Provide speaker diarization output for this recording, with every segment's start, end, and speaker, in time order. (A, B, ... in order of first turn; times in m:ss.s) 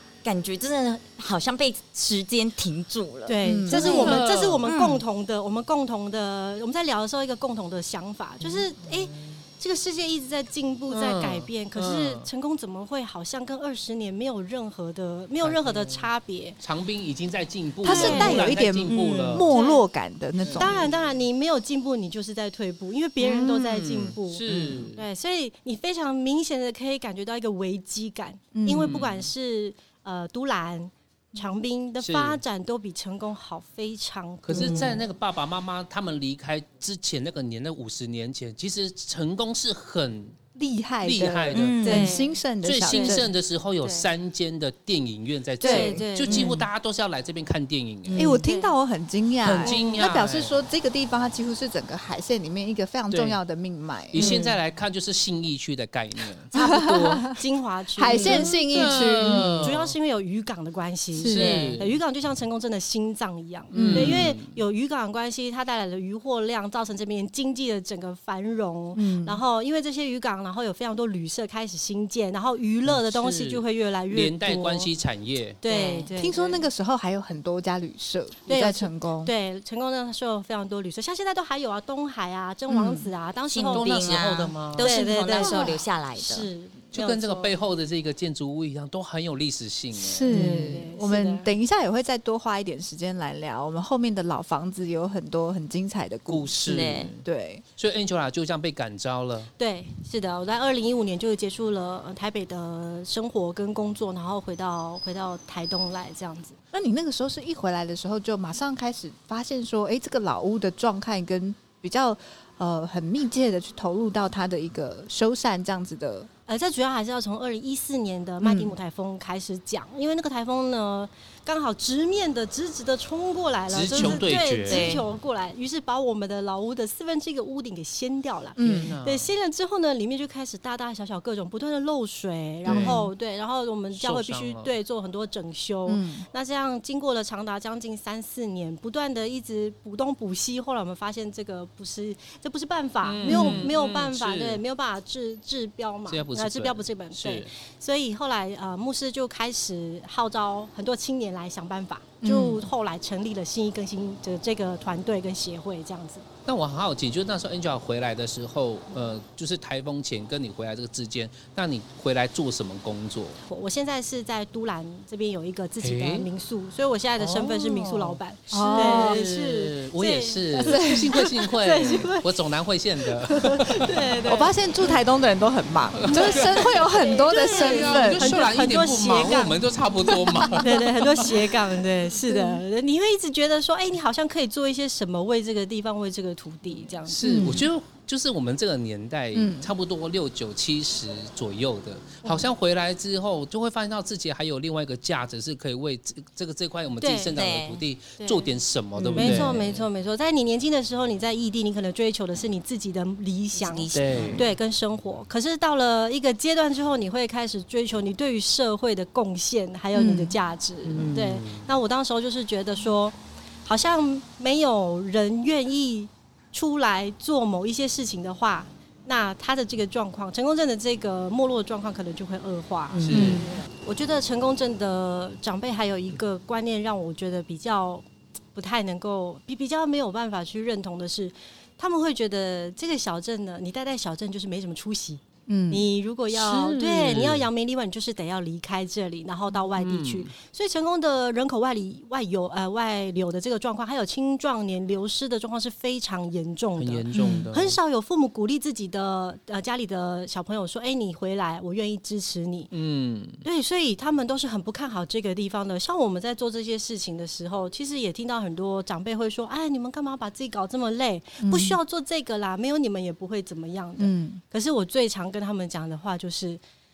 0:00.2-0:05.0 A
0:03.3-0:16.6 B
0:03.4-0:04.1 C
0:03.8-0:04.7 D
0:10.9-0:12.3 D
0:15.4-0:19.5 D
0:17.8-0:19.9 B
0:17.8-0:20.8 C
0:20.4-0:21.0 D
0:20.6-0:35.0 B
0:23.4-0:25.0 D
0:28.5-0:29.0 C
0:28.7-0:29.3 D
0:32.0-0:32.4 D
0:34.4-0:40.4 D
0:34.6-0:34.9 C
0:40.6-0:43.3 C
0:41.0-0:41.8 D
0:41.5-0:42.1 A
0:41.8-0:43.2 B
0:42.6-0:48.4 D
0:43.8-0:44.1 B
0:45.6-0:46.5 C
0:45.6-0:46.6 B
0:48.1-0:48.4 A
0:48.1-0:48.8 B
0:48.2-0:54.4 C
0:49.4-0:50.6 D
0:53.1-0:53.4 D
0:54.1-0:57.2 D
0:54.2-0:54.5 B
0:56.5-0:57.4 C
0:56.6-1:14.9 B
0:58.0-0:59.7 C
0:58.1-1:00.0 D
1:01.2-1:01.7 C
1:01.2-1:01.9 D
1:01.3-1:01.8 A
1:03.7-1:04.6 D
1:03.7-1:04.2 C
1:09.0-1:09.4 C
1:12.9-1:15.6 D
1:15.6-1:16.6 B
1:15.6-1:16.1 A
1:16.2-1:19.3 C
1:18.5-1:27.5 B
1:22.7-1:23.1 C
1:23.5-1:26.5 A
1:23.7-1:24.9 D
1:25.4-1:25.8 C
1:26.9-1:30.8 D
1:30.0-1:36.7 C
1:30.3-1:31.5 B
1:36.3-1:37.2 D
1:36.6-1:37.1 A
1:37.2-1:37.6 C
1:37.8-1:39.5 D
1:39.6-1:46.6 B
1:46.7-1:56.3 C
1:56.5-2:36.2 B
1:58.4-1:58.7 C
2:03.7-2:05.0 D
2:04.7-2:05.0 A
2:08.6-2:08.9 C
2:08.6-2:09.3 D
2:12.6-2:13.0 D
2:12.7-2:13.1 C
2:14.0-2:14.7 D
2:15.9-2:16.3 C
2:23.0-2:24.6 D
2:23.2-2:23.7 C
2:26.1-2:27.5 D
2:32.2-2:32.6 C
2:36.5-2:43.4 D
2:43.5-2:52.4 B
2:45.8-2:46.3 D
2:47.2-2:54.0 D
2:48.5-2:49.2 C
2:50.6-2:51.1 C
2:53.1-2:54.5 B
2:54.3-2:58.4 C
2:56.0-2:56.9 D
2:56.1-3:07.2 B
2:57.5-3:01.4 D
3:00.3-3:00.8 C
3:02.3-3:02.6 C
3:07.1-3:19.8 D
3:07.2-3:07.7 C
3:09.4-3:09.7 C
3:17.0-3:17.4 B
3:17.3-3:17.8 A
3:18.2-3:18.6 B
3:19.0-3:19.5 C
3:19.2-3:48.0 B
3:23.6-3:24.5 A
3:23.9-3:24.4 D
3:29.9-3:30.4 C
3:30.9-3:31.7 D
3:42.9-3:43.5 D
3:43.1-3:43.5 C
3:48.6-4:12.7 B
3:55.5-3:55.8 C
3:56.3-3:57.5 D
3:59.8-4:00.3 D
4:06.8-4:07.8 D
4:07.1-4:07.5 C
4:12.7-4:13.4 D
4:13.4-4:26.6 B
4:21.4-4:21.8 C
4:24.0-4:24.4 C